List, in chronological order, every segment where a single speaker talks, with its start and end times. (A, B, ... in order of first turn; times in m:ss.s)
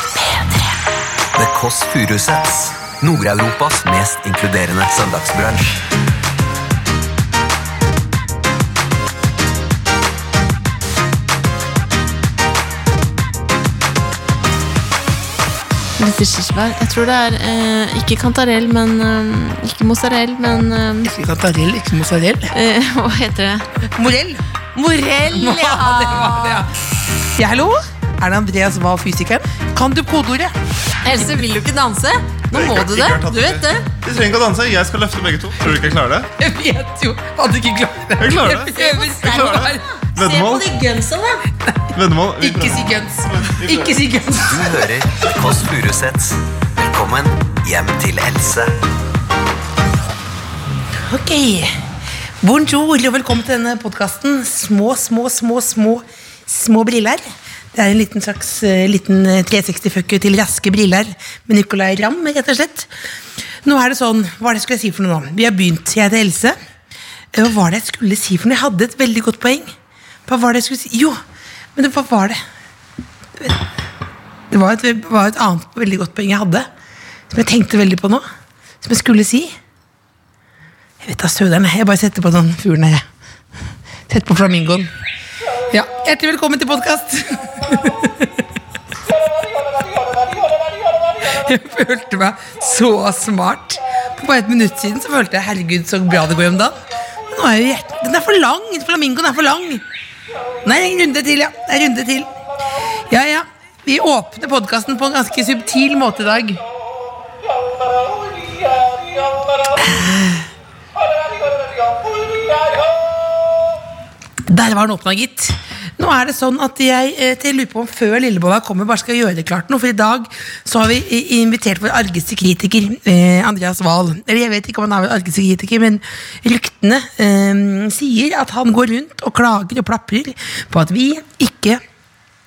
0:01.4-0:05.8 A
0:16.0-0:21.1 B
0:21.0-0:22.5 C
0:22.5-0:23.7 B
0:24.0-0:24.4 C
0:24.7-0:26.6 B
0:25.3-0:26.8 C
0:27.4-0:30.6 C
0:31.0-0:33.9 B
0:32.5-0:36.3 D
0:36.4-0:39.8 C
0:38.2-0:40.8 D
0:38.6-0:41.4 B
0:41.9-0:44.0 D
0:42.4-0:44.9 C
0:44.4-0:48.7 A
0:51.1-0:51.8 C
0:52.4-1:02.9 C
1:03.6-1:06.6 C
1:07.3-1:09.7 C
1:10.3-1:11.2 C
1:11.8-1:12.4 C
1:14.5-1:16.7 C
1:17.3-1:18.2 C
1:18.8-1:19.5 C
1:21.0-1:23.0 C
1:24.1-1:24.9 C
1:25.7-1:28.4 C
1:31.0-1:39.8 C
1:40.6-1:42.3 C
1:43.1-1:46.6 C
1:49.7-1:50.5 C
1:54.5-2:11.8 C